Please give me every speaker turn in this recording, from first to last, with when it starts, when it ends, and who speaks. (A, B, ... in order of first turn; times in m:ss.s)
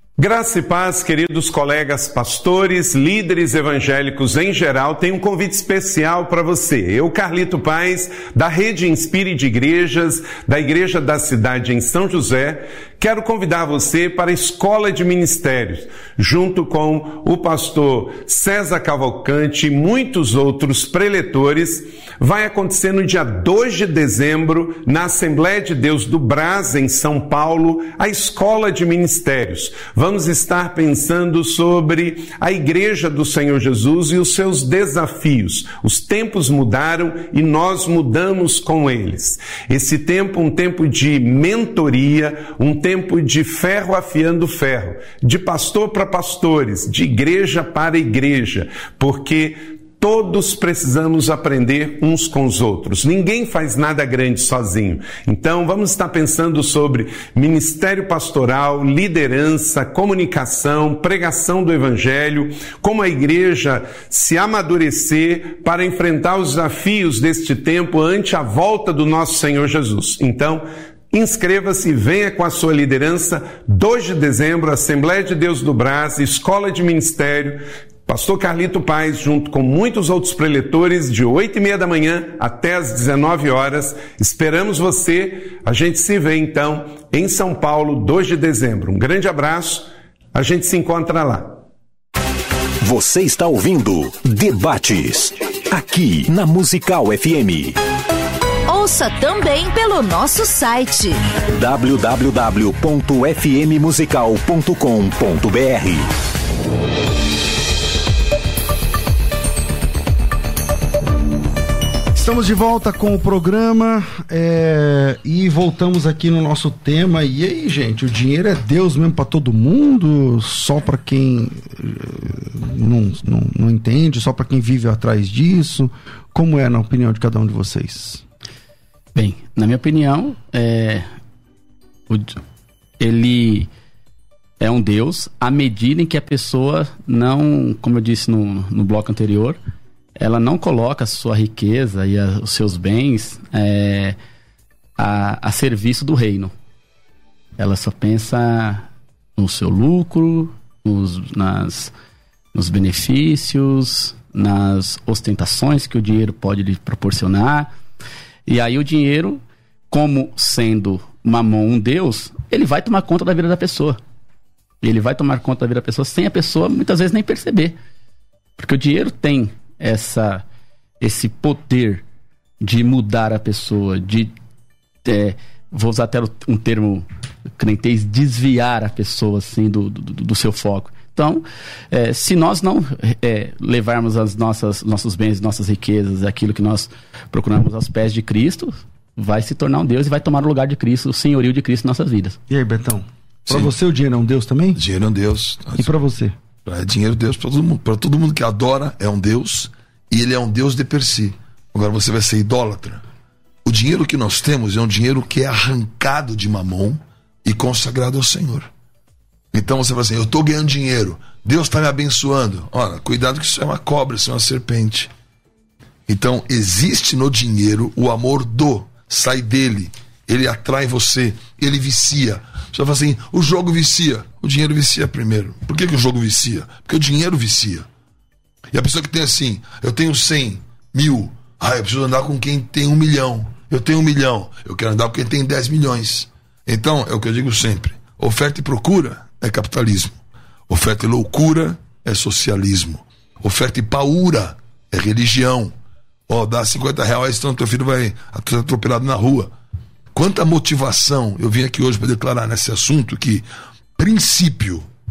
0:00.2-1:31.6 A
1:32.8-1:37.8 B
1:38.7-1:41.2 C
1:41.5-1:46.1 B
1:52.1-2:08.2 D
2:09.1-2:11.1 E
2:12.1-2:12.4 E
2:13.0-2:13.7 E
2:14.6-2:19.6 E
2:20.2-2:24.2 E
2:25.0-2:26.5 E
2:27.6-2:31.9 E
2:32.5-2:37.7 E
2:38.5-2:44.0 E
2:44.8-2:47.7 E
2:48.6-2:50.4 E
2:51.0-2:52.0 E
2:52.6-2:54.3 E
2:55.0-2:57.1 E
2:57.6-3:12.4 E
3:12.5-3:14.8 D
3:14.8-3:15.9 F
3:15.8-3:16.4 D
3:16.6-3:23.0 F
3:23.6-3:28.7 F
3:29.5-3:35.1 F
3:36.1-3:47.8 F
3:48.7-4:00.2 F
4:00.7-4:05.7 F
4:06.3-4:09.5 F
4:10.1-4:13.4 F
4:14.0-4:14.8 F